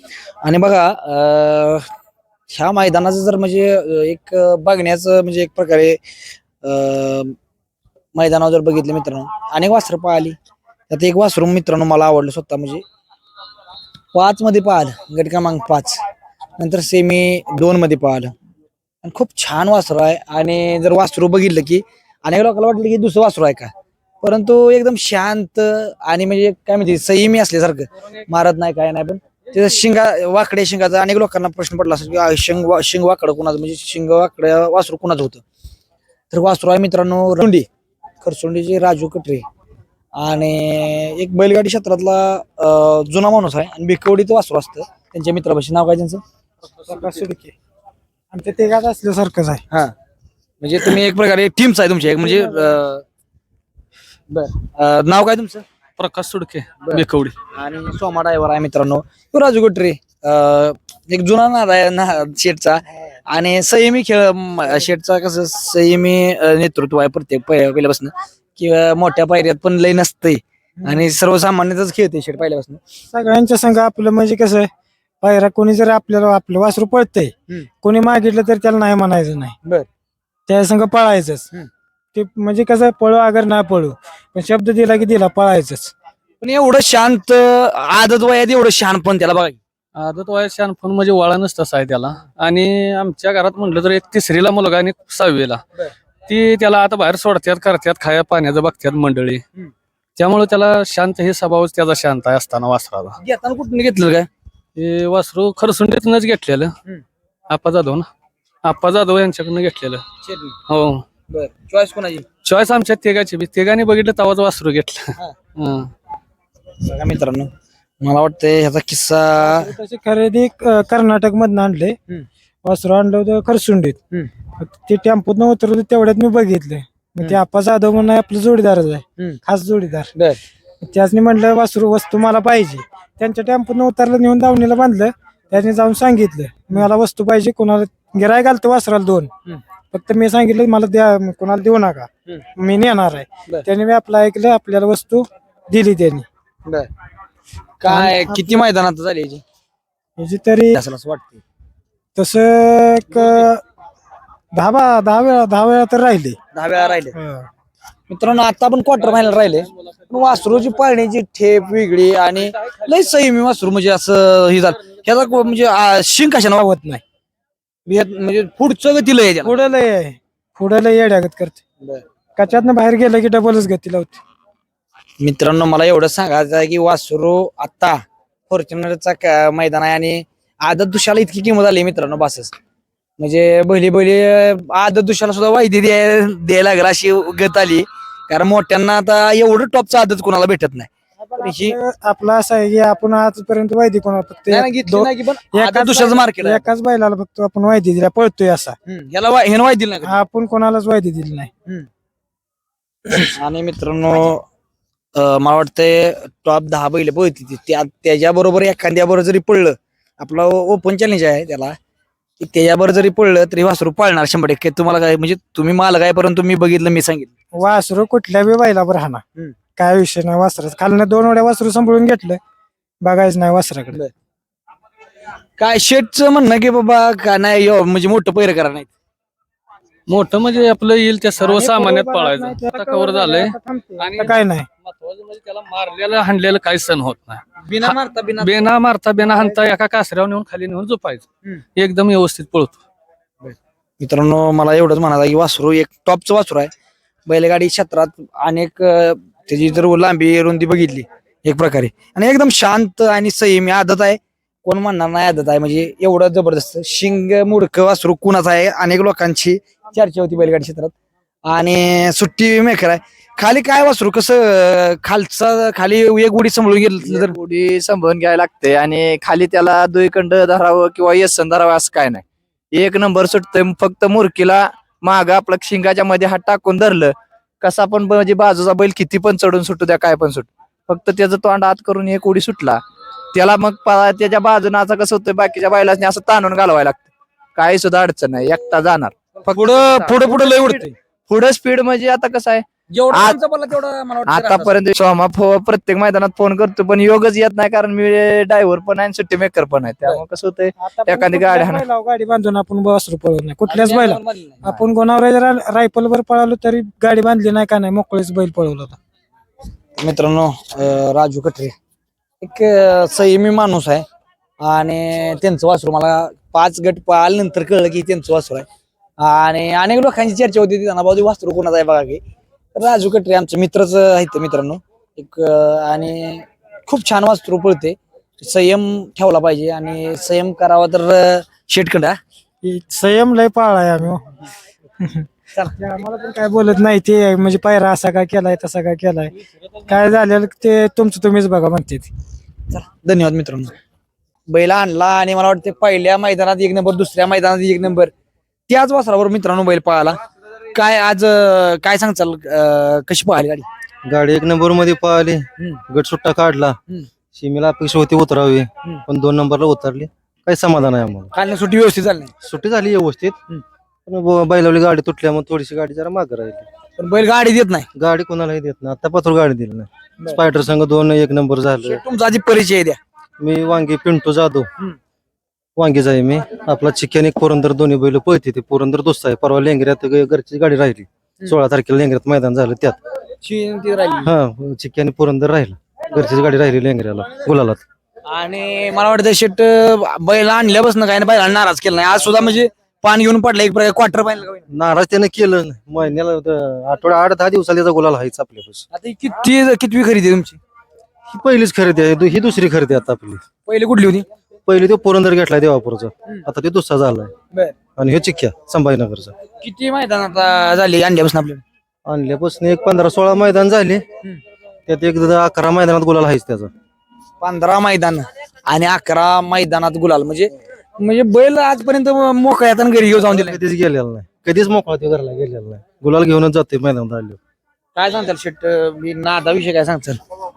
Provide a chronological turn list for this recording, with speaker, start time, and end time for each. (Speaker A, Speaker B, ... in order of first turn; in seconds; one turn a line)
Speaker A: 0.4-1.9
Speaker A: 2.5-6.0
Speaker A: 6.6-7.3
Speaker A: 8.1-10.3
Speaker A: 10.9-12.8
Speaker A: 14.1-16.0
Speaker A: 16.6-18.3
Speaker A: 19.0-35.4
Speaker A: 36.3-37.7
Speaker A: 38.2-39.4
Speaker A: 40.1-46.2
Speaker B: 46.8-47.5
Speaker B: 48.3-49.6
Speaker A: 50.6-53.0
Speaker B: 52.2-52.8
Speaker A: 54.3-55.6
Speaker C: 56.0-57.3
Speaker A: 56.8-72.8
Speaker B: 70.8-71.1
Speaker B: 73.1-74.7
Speaker B: 75.2-79.5
Speaker B: 80.5-81.5
Speaker B: 82.1-85.9
Speaker A: 86.4-89.6
Speaker C: 89.9-95.6
Speaker C: 96.3-99.4
Speaker C: 100.2-103.2
Speaker A: 103.2-104.3
Speaker C: 104.8-106.7
Speaker C: 107.5-108.1
Speaker C: 108.6-110.0
Speaker A: 110.2-110.6
Speaker C: 110.7-111.0
Speaker A: 111.3-112.3
Speaker C: 112.4-115.9
Speaker A: 116.8-117.5
Speaker A: 118.0-119.7
Speaker B: 119.4-122.0
Speaker B: 122.6-124.0
Speaker B: 124.6-130.1
Speaker A: 130.1-130.4
Speaker B: 130.8-139.3
Speaker B: 139.9-146.3
Speaker A: 147.8-149.4
Speaker B: 147.8-148.6
Speaker B: 150.2-150.8
Speaker A: 150.7-151.4
Speaker B: 152.1-153.6
Speaker B: 154.5-156.4
Speaker A: 156.5-157.2
Speaker B: 157.1-157.5
Speaker A: 158.1-167.0
Speaker A: 167.8-169.6
Speaker B: 169.4-171.6
Speaker B: 172.4-174.2
Speaker A: 175.2-182.5
Speaker A: 183.2-191.8
Speaker B: 191.2-198.8
Speaker A: 194.5-196.7
Speaker A: 198.8-200.2
Speaker B: 200.0-201.5
Speaker A: 203.3-204.4
Speaker A: 205.2-211.8
Speaker A: 212.4-217.3
Speaker B: 217.5-219.2
Speaker B: 219.8-222.4
Speaker B: 223.0-224.0
Speaker A: 225.6-228.9
Speaker C: 230.1-241.2
Speaker B: 231.4-234.7
Speaker A: 237.6-238.7
Speaker C: 241.8-242.8
Speaker A: 243.4-246.7
Speaker A: 247.2-260.9
Speaker A: 261.4-267.4
Speaker D: 267.0-282.8
Speaker D: 283.3-293.4
Speaker A: 289.4-290.9
Speaker A: 292.9-294.8
Speaker D: 294.3-301.9
Speaker B: 300.8-309.0
Speaker A: 303.7-304.8
Speaker A: 310.0-311.7
Speaker A: 312.4-314.0
Speaker A: 314.6-318.7
Speaker A: 319.2-322.2
Speaker A: 322.7-332.2
Speaker B: 332.6-334.3
Speaker B: 335.0-342.1
Speaker A: 342.7-343.8
Speaker A: 344.5-348.1
Speaker A: 348.7-350.2
Speaker A: 350.7-353.6
Speaker E: 354.0-356.8
Speaker E: 357.3-361.3
Speaker A: 361.3-362.3
Speaker E: 362.4-363.4
Speaker E: 364.1-366.7
Speaker A: 367.0-367.9
Speaker E: 367.9-372.0
Speaker A: 371.8-373.0
Speaker E: 373.4-374.7
Speaker E: 375.8-383.0
Speaker A: 383.4-384.3
Speaker E: 384.2-387.8
Speaker A: 388.2-394.6
Speaker E: 394.7-398.8
Speaker A: 398.9-400.6
Speaker E: 401.3-403.4
Speaker A: 403.6-404.2
Speaker E: 404.6-407.3
Speaker E: 408.0-409.3
Speaker A: 409.6-411.6
Speaker E: 412.1-414.0
Speaker E: 414.9-416.7
Speaker A: 417.4-423.6
Speaker E: 423.2-427.4
Speaker A: 427.9-430.2